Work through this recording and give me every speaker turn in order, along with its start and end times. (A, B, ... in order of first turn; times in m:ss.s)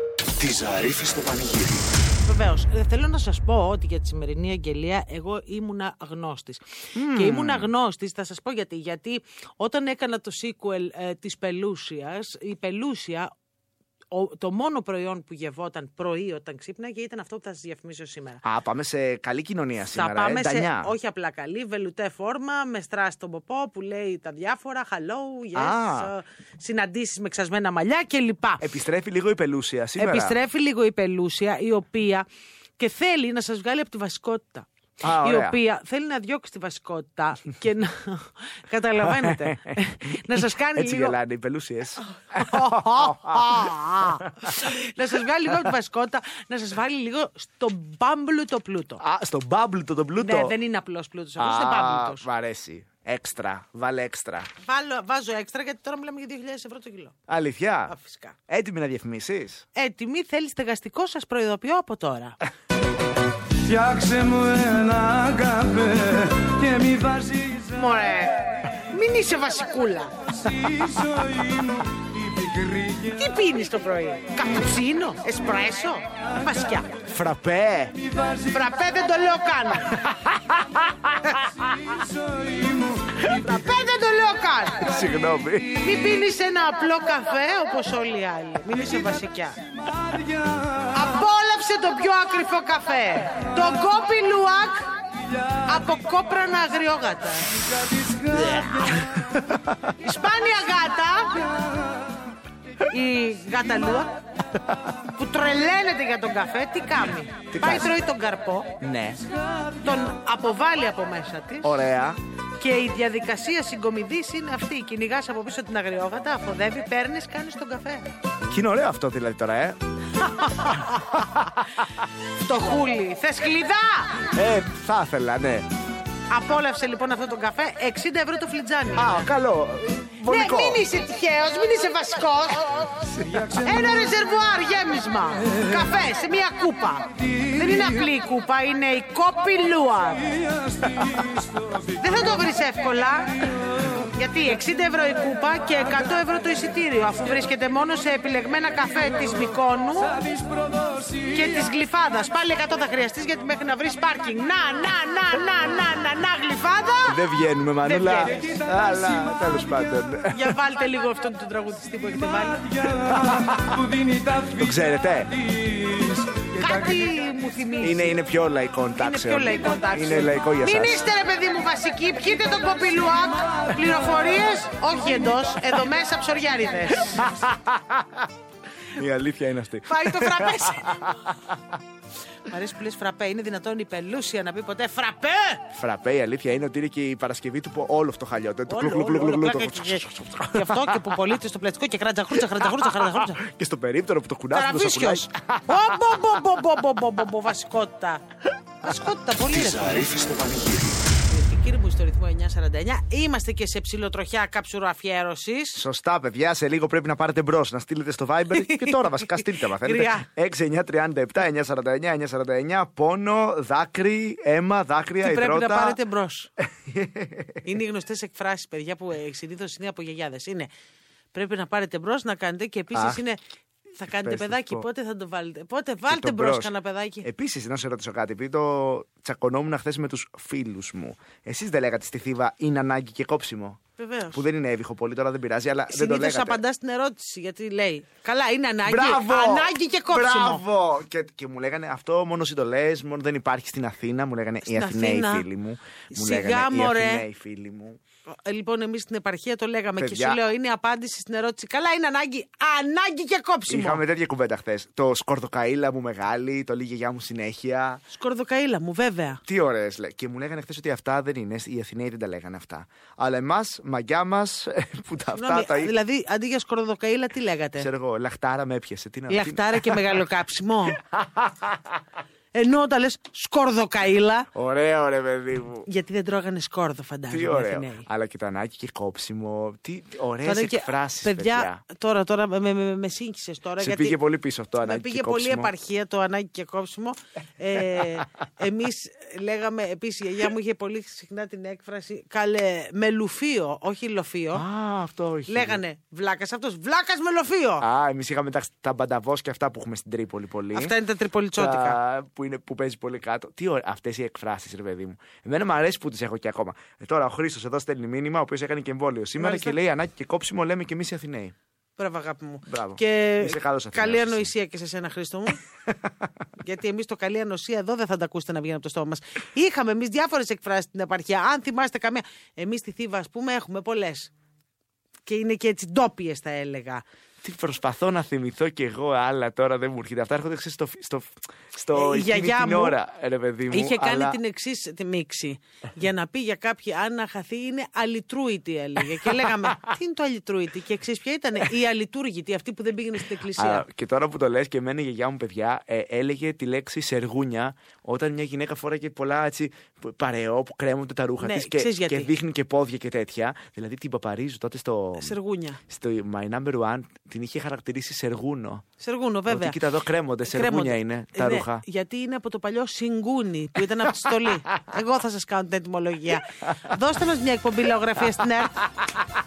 0:00.4-0:01.9 A
0:02.1-0:13.3 B
0:06.9-0:07.7 C
0:14.1-0:18.4 B
0:18.4-0:20.9 C
0:19.8-0:28.6 B
0:25.5-0:26.1 C
0:28.6-0:30.4 C
0:30.0-0:32.2 B
0:32.8-0:41.2 B
0:35.0-0:35.6 C
0:39.0-0:44.5 C
0:42.3-0:49.0 B
0:49.0-0:50.5 C
0:50.2-0:52.2 B
0:51.4-0:54.5 C
0:54.6-0:57.1 B
0:57.3-0:57.9 C
0:57.9-0:58.4 B
0:58.5-0:59.6 C
0:59.8-1:02.4 B
1:03.6-1:07.7 D
1:07.7-1:10.1 B
1:10.5-1:13.0 D
1:13.0-1:16.9 B
1:17.0-1:17.9 C
1:18.5-1:20.0 B
1:20.0-1:21.4 C
1:22.3-1:23.2 D
1:23.3-1:24.9 B
1:24.8-1:25.9 C
1:25.8-1:29.6 B
1:30.9-1:34.9 B
1:35.6-1:37.6 B
1:38.0-1:38.6 D
1:38.4-1:38.8 B
1:40.0-1:41.6 B
1:42.9-1:44.1 B
1:45.2-1:48.7 B
1:47.5-1:47.9 C
1:48.8-1:49.2 C
1:49.8-1:51.8 B
1:51.6-1:52.2 C
1:52.6-1:58.0 B
1:58.5-1:59.8 C
2:00.2-2:01.4 B
2:00.9-2:01.6 C
2:02.4-2:04.2 B
2:04.3-2:05.7 C
2:06.3-2:09.3 B
2:09.0-2:10.8 C
2:10.3-2:12.9 B
2:13.1-2:13.5 C
2:13.6-2:20.3 B
2:22.0-2:23.5 B
2:24.1-2:30.3 B
2:30.4-2:31.0 D
2:31.2-2:37.2 B
2:37.0-2:40.5 C
2:37.8-2:38.4 B
2:40.3-2:42.7 B
2:42.7-2:44.6 D
2:43.1-2:43.8 C
2:44.5-2:45.3 C
2:45.6-2:46.4 D
2:46.5-2:48.2 B
2:47.8-2:51.0 C
2:49.0-2:57.2 B
2:57.2-2:58.3 C
2:58.9-3:01.6 C
2:59.9-3:01.0 B
3:02.5-3:05.6 B
3:05.7-3:11.1 C
3:08.7-3:10.0 B
3:10.5-3:13.4 B
3:12.6-3:15.8 C
3:14.5-3:18.2 B
3:18.8-3:20.0 B
3:19.4-3:21.0 A
3:21.3-3:25.8 B
3:25.7-3:36.0 C
3:28.5-3:30.3 B
3:35.2-3:36.5 B
3:36.8-3:37.6 C
3:37.6-3:40.7 B
3:41.3-3:43.4 B
3:42.9-3:43.2 C
3:44.0-3:47.2 B
3:44.2-3:44.8 C
3:46.1-3:46.7 C
3:47.2-3:53.8 C
3:54.0-3:54.4 B
3:54.3-3:56.6 C
3:55.9-4:00.6 B
3:58.8-4:08.0 C
4:04.6-4:05.5 B
4:06.1-4:07.2 B
4:08.3-4:14.0 B
4:10.0-4:10.4 C
4:13.7-4:18.0 C
4:18.1-4:19.4 B
4:19.4-4:25.9 C
4:25.3-4:27.9 B
4:27.8-4:30.1 C
4:29.3-4:31.0 B
4:31.0-4:32.0 C
4:32.5-4:34.5 B
4:34.5-4:35.9 C
4:35.9-4:38.0 B
4:37.3-4:41.8 C
4:40.4-4:44.2 B
4:43.8-4:45.7 C
4:44.8-4:54.6 B
4:54.5-4:55.8 C
4:55.5-4:57.8 B
4:57.8-5:00.9 C
5:00.7-5:02.0 B
5:01.6-5:11.5 C
5:09.4-5:09.8 B
5:12.0-5:15.6 B
5:12.6-5:14.5 C
5:16.6-5:24.3 B
5:25.2-5:27.0 B
5:27.4-5:34.4 C
5:31.9-5:33.0 B
5:33.7-5:43.8 B
5:43.5-5:55.4 C
5:51.4-5:52.3 B
5:55.2-5:55.8 B
5:55.9-5:58.8 C
5:59.0-5:59.8 B
5:59.5-6:01.8 C
6:00.5-6:08.8 B